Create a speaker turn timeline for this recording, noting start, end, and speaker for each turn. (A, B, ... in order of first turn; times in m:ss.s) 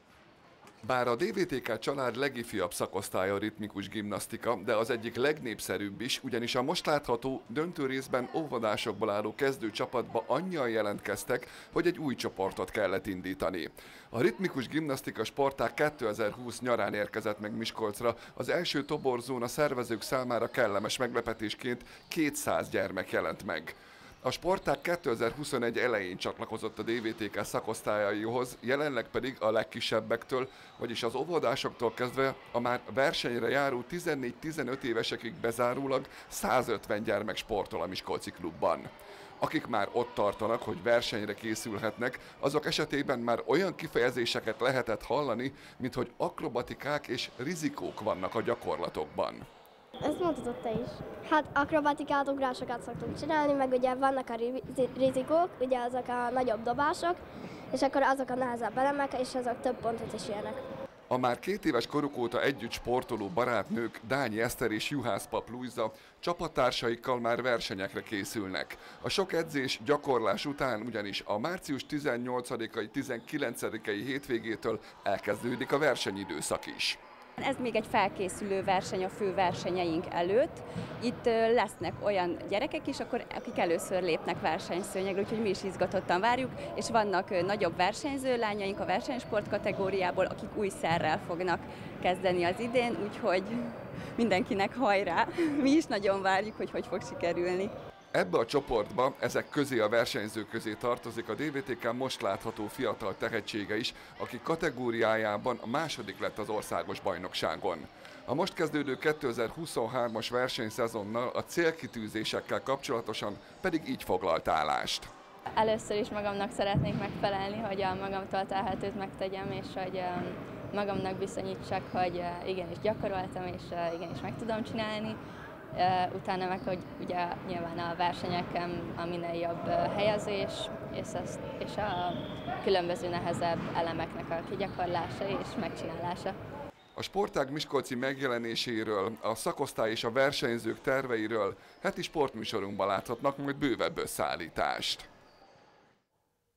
0:00.9-0:38.9 A
0:39.4-0:49.4 A
0:50.0-0:57.2 B
0:57.7-1:00.6 B
1:01.1-1:17.0 A
1:17.4-1:37.7 C
1:38.1-1:55.1 A
1:55.5-2:05.2 D
2:05.8-2:16.4 D
2:17.0-2:25.1 A